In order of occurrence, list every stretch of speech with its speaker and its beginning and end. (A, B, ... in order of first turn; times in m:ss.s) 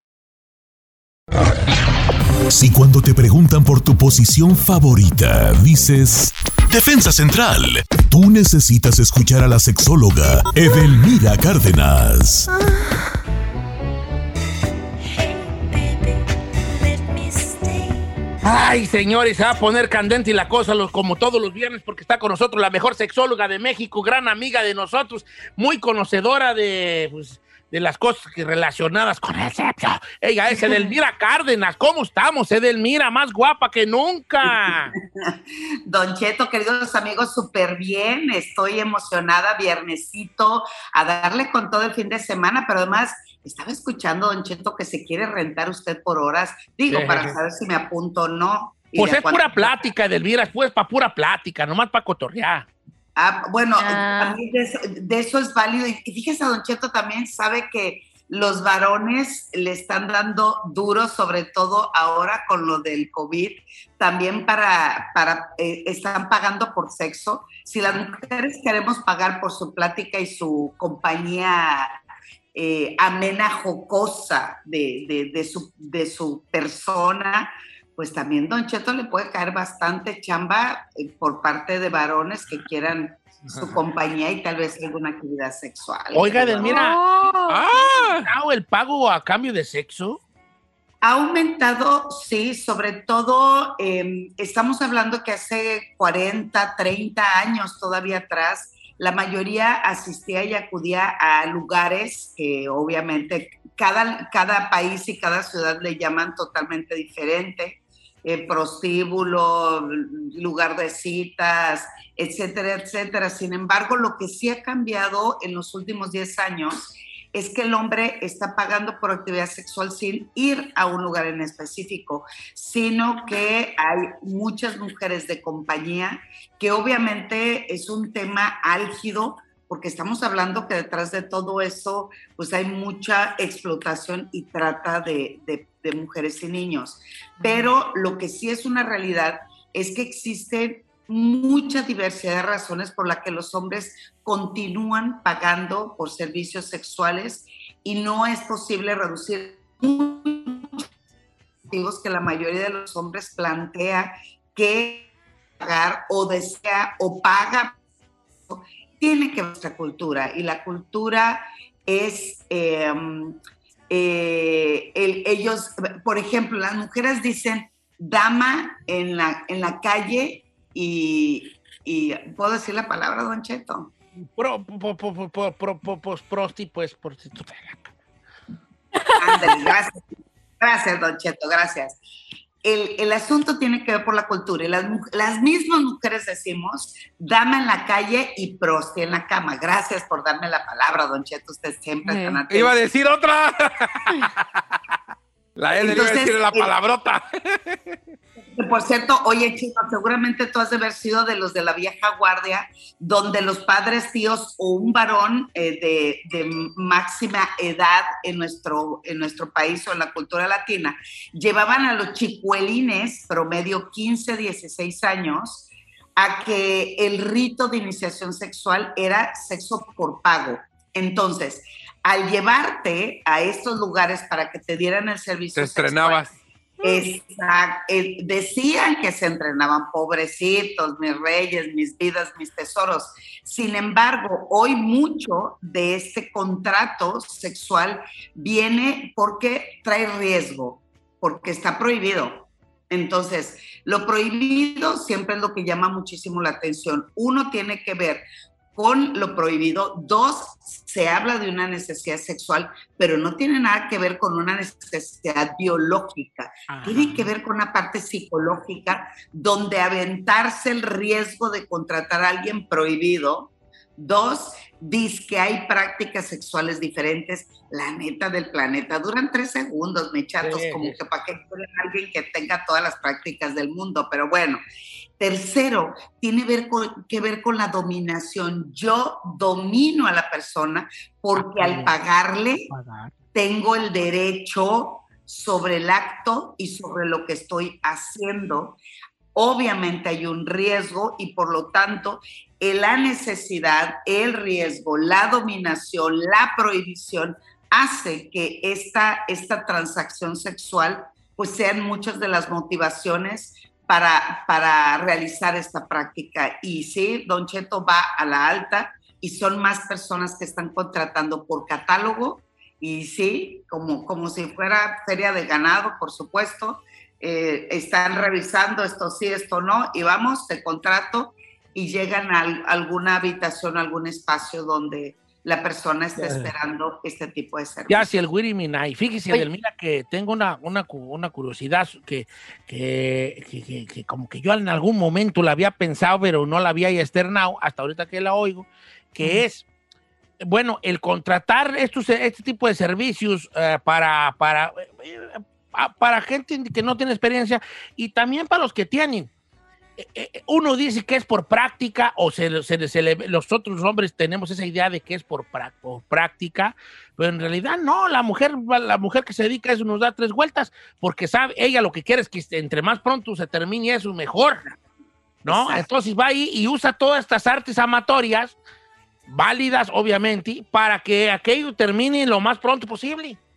0:02.5-0:12.5 A
0:18.4-0:35.0 B
0:34.4-0:49.9 C
0:46.9-0:47.4 B
0:49.0-0:52.7 B
0:53.2-1:12.0 C
0:53.8-0:54.4 D
1:12.5-1:26.9 C
1:23.4-1:23.8 B
1:26.1-1:27.0 B
1:26.7-1:28.0 D
1:27.5-1:28.3 E
1:28.2-1:30.2 B
1:31.0-2:30.9 C
2:17.4-2:17.7 D
2:31.7-2:35.1 C
2:35.6-2:37.8 C
2:38.5-2:43.4 C
2:43.9-2:53.9 C
2:54.2-2:57.9 B
2:59.0-2:59.5 D
2:59.2-3:00.0 C
3:00.6-3:02.0 C
3:02.6-3:12.8 C
3:12.0-3:12.4 D
3:12.5-3:14.8 E
3:15.6-3:18.0 E
3:15.7-3:16.8 C
3:18.5-4:34.6 C
3:45.6-3:46.4 E
4:16.7-4:17.3 B
4:30.4-4:31.0 B
4:35.2-4:42.7 C
4:41.4-4:42.0 B
4:42.7-4:43.1 B
4:43.3-4:48.8 C
4:49.4-5:28.2 C
5:26.2-5:26.5 B
5:27.9-5:39.7 B
5:40.4-5:49.3 B
5:50.0-6:04.6 B
6:05.4-6:05.9 C
6:05.5-6:08.6 B
6:09.3-6:13.4 B